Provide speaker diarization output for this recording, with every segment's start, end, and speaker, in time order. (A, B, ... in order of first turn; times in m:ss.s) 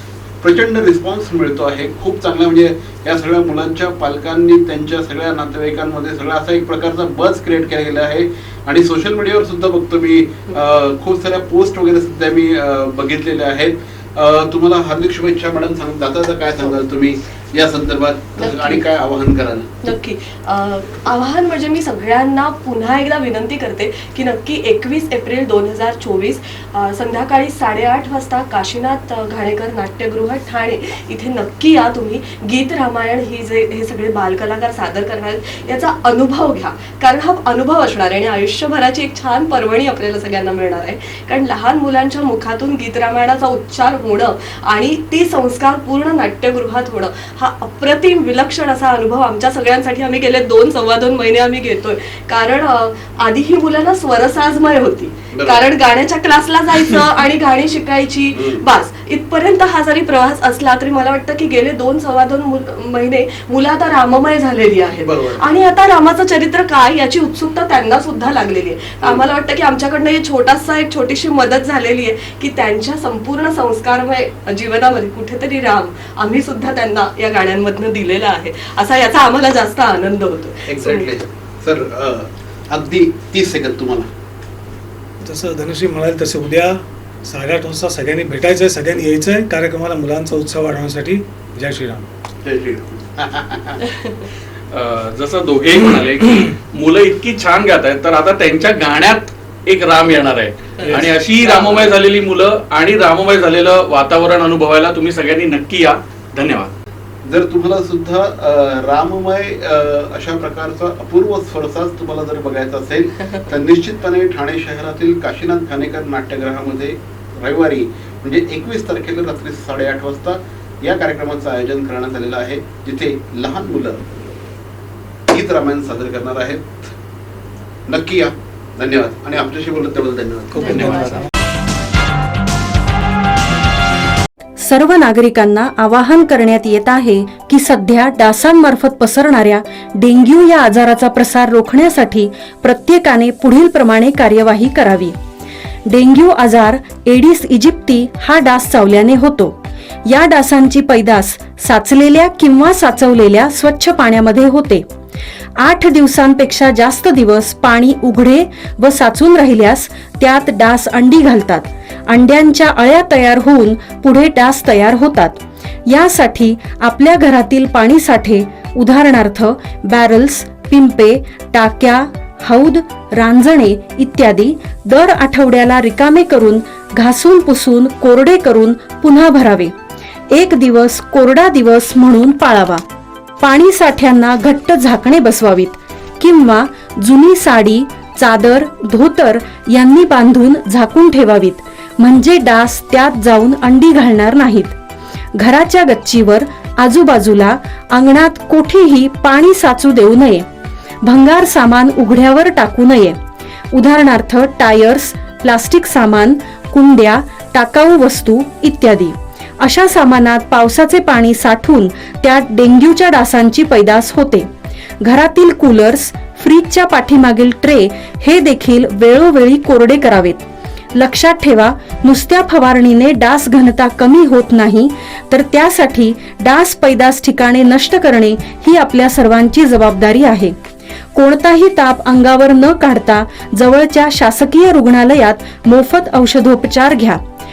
0:00.4-0:19.7 A
0:18.4-0:18.8 B
0:19.8-1:21.1 B
0:55.3-0:55.7 A
0:58.3-0:58.6 A
1:05.0-1:05.5 A
1:20.7-1:24.1 A
1:25.2-1:32.0 C
1:32.4-1:33.9 A
1:34.7-1:46.7 D
1:47.2-2:04.0 A
2:05.3-2:06.9 A
2:07.9-2:11.1 A
2:10.6-2:11.2 E
2:10.8-2:11.2 C
2:14.6-2:25.2 E
2:25.9-2:34.9 E
2:35.6-2:59.7 E
3:00.3-3:02.8 E
3:03.4-3:14.8 E
3:15.4-3:20.5 E
3:21.0-3:23.2 E
3:23.7-3:34.5 E
3:35.0-3:40.4 E
3:41.0-3:50.6 E
3:51.2-3:57.2 E